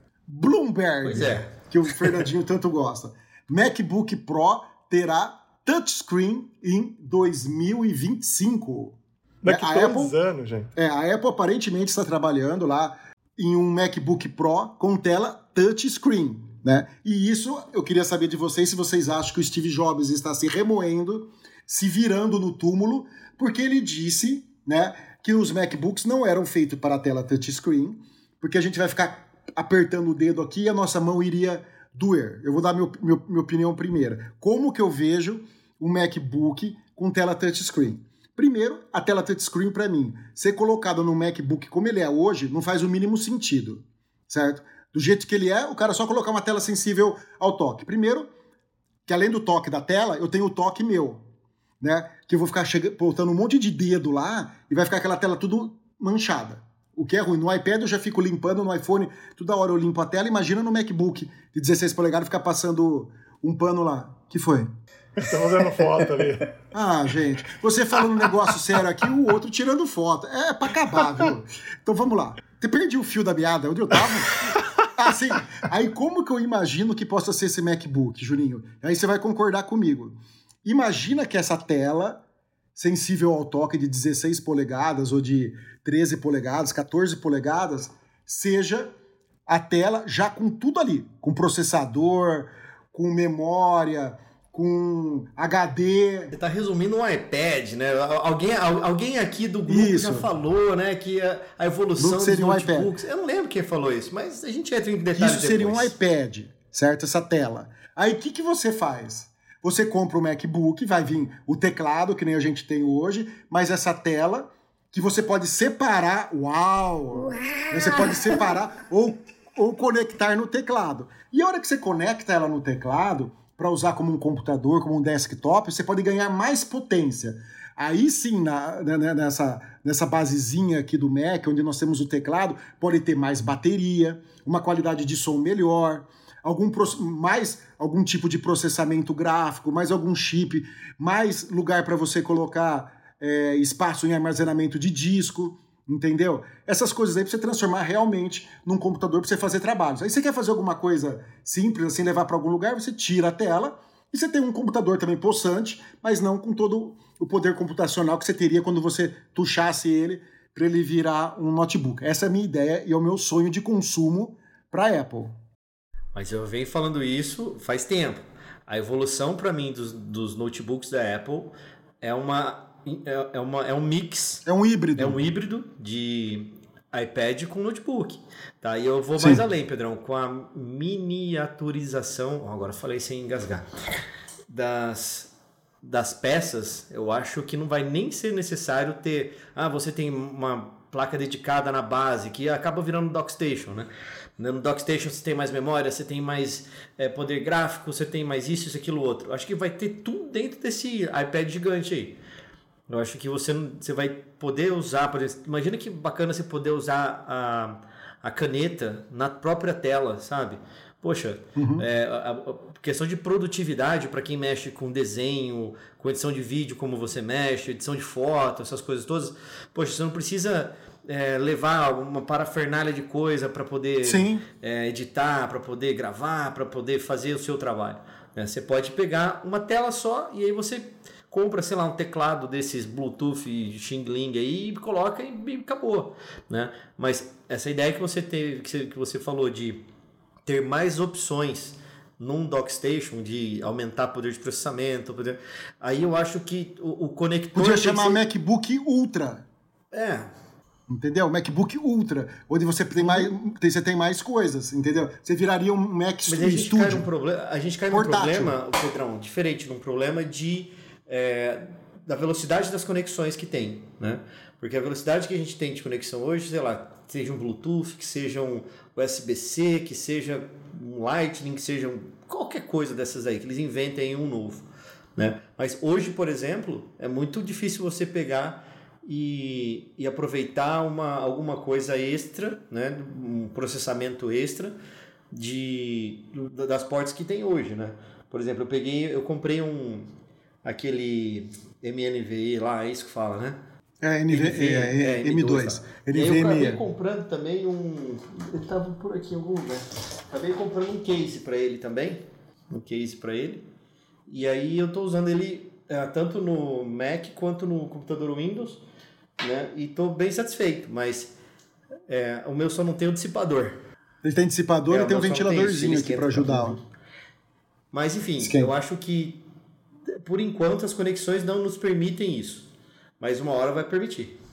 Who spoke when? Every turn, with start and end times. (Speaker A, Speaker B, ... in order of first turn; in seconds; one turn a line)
Speaker A: 0.3-10.1
Speaker B: 1.0-1.5
Speaker C: 9.4-10.7
Speaker A: 10.8-48.3
Speaker A: 49.0-51.2
Speaker A: 51.8-64.7
Speaker C: 65.2-66.5
Speaker A: 66.7-74.3
Speaker A: 74.9-82.2
Speaker A: 82.7-88.9
Speaker A: 89.5-96.3
Speaker B: 96.3-105.9
Speaker A: 99.7-100.3
Speaker A: 102.0-102.9
Speaker A: 105.1-165.3
Speaker B: 166.1-174.4
Speaker A: 174.4-175.2
Speaker B: 175.0-183.7
Speaker A: 179.2-179.4
Speaker B: 184.5-185.3
Speaker B: 185.8-202.2
Speaker B: 202.9-239.8
Speaker A: 211.6-211.8
Speaker A: 224.0-224.4
Speaker B: 240.4-248.2
Speaker A: 247.5-249.4
Speaker B: 249.9-250.3
Speaker A: 250.9-257.0
Speaker B: 253.0-253.3
Speaker B: 256.2-274.6
Speaker A: 257.9-258.6
Speaker B: 275.2-284.8
Speaker B: 285.3-290.1
Speaker B: 290.6-293.6
Speaker A: 294.0-296.8
Speaker B: 294.3-303.7
Speaker B: 304.3-308.8
Speaker B: 309.4-311.3
Speaker B: 312.1-313.8
Speaker A: 314.2-316.8
Speaker B: 314.9-316.8
Speaker B: 317.9-319.4
Speaker A: 318.4-318.7
Speaker B: 320.2-322.7
Speaker B: 323.2-324.4